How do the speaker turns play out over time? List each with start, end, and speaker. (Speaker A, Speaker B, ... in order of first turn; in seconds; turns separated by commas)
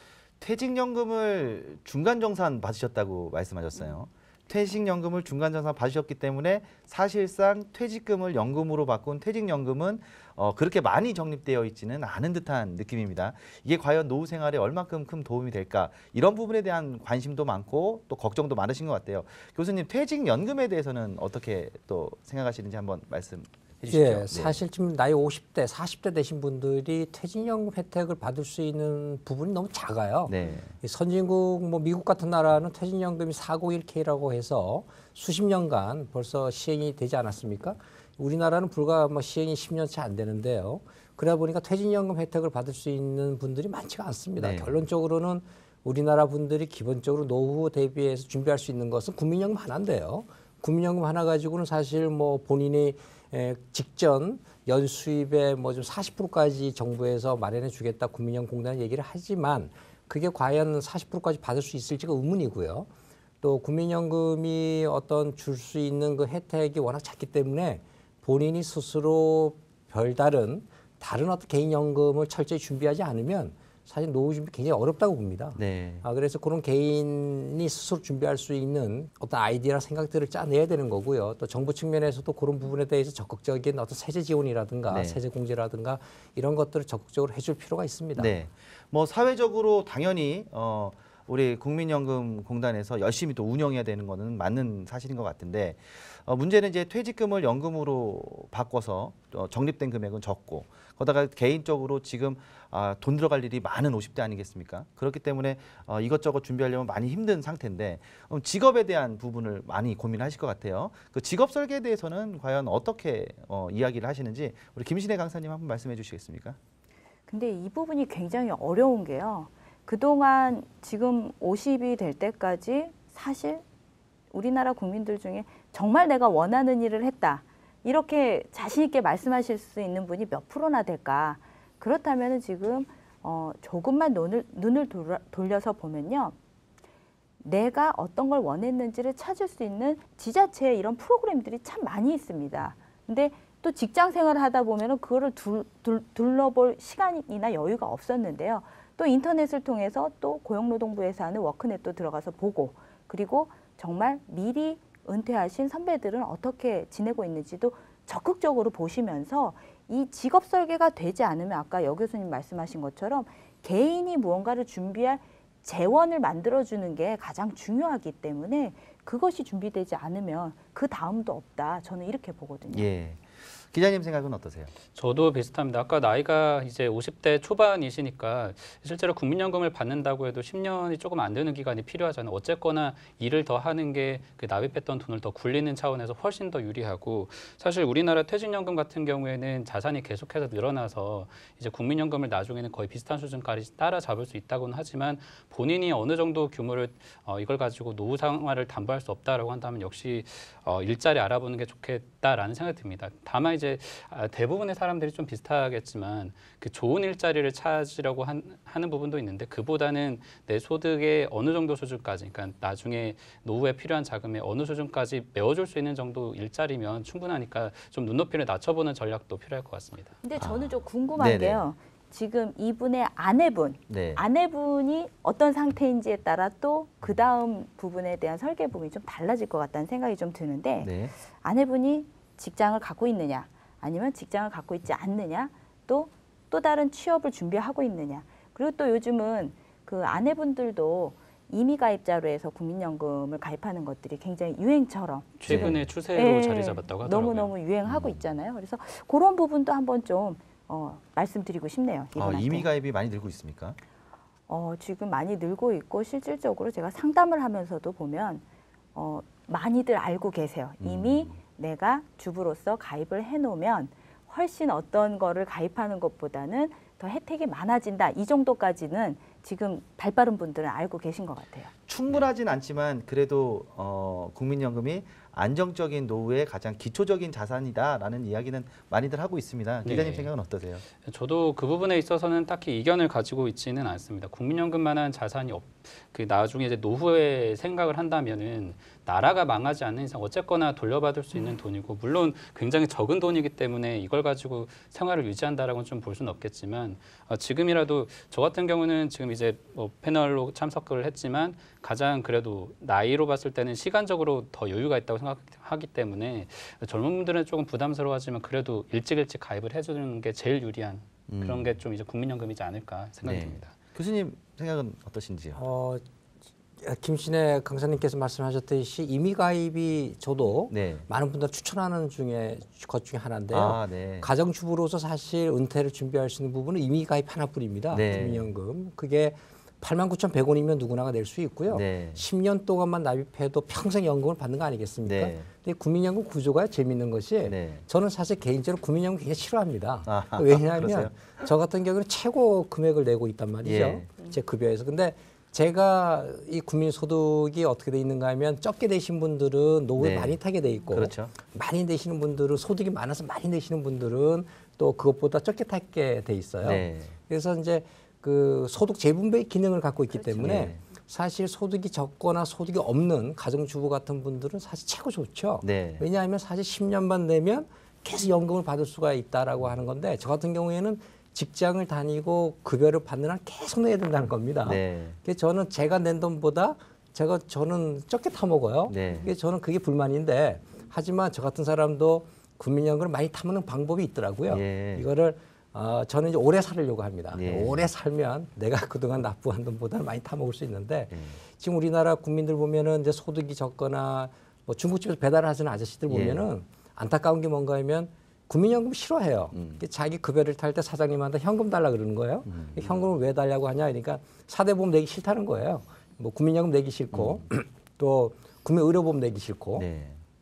Speaker A: 0.4-24.6, Speaker B: 23.9-62.9, Speaker A: 30.3-30.7, Speaker A: 44.4-44.8, Speaker B: 63.4-88.4, Speaker A: 75.5-76.0, Speaker A: 84.9-85.2, Speaker A: 88.2-116.6, Speaker C: 117.3-123.6, Speaker C: 124.3-136.3, Speaker C: 137.4-172.9, Speaker A: 172.7-174.7, Speaker D: 174.9-220.2, Speaker C: 220.2-252.7, Speaker A: 220.4-221.6, Speaker A: 223.9-224.2, Speaker A: 230.8-231.1, Speaker D: 245.4-247.5, Speaker A: 245.5-245.9, Speaker A: 247.9-248.2, Speaker A: 252.1-253.8, Speaker C: 254.5-258.4, Speaker C: 258.9-271.7, Speaker A: 260.8-261.4, Speaker A: 271.9-280.8, Speaker D: 279.8-280.3, Speaker D: 281.0-313.7, Speaker A: 311.3-311.7, Speaker A: 313.2-315.6, Speaker B: 315.5-316.0, Speaker B: 316.8-409.9, Speaker A: 320.7-321.1, Speaker A: 323.5-324.3, Speaker A: 327.9-328.5, Speaker A: 331.7-332.2, Speaker A: 335.0-335.5, Speaker A: 337.4-337.8, Speaker A: 340.1-341.2, Speaker A: 343.6-344.1, Speaker A: 350.0-350.4, Speaker A: 350.9-351.3, Speaker A: 356.6-357.1, Speaker A: 360.4-360.8, Speaker A: 365.6-366.0, Speaker A: 374.6-375.2, Speaker A: 378.9-379.3, Speaker A: 384.5-385.1, Speaker A: 387.3-387.9, Speaker A: 391.1-391.4, Speaker A: 396.1-396.5, Speaker A: 399.5-399.8, Speaker A: 402.5-403.0, Speaker A: 407.1-407.4, Speaker A: 409.8-410.2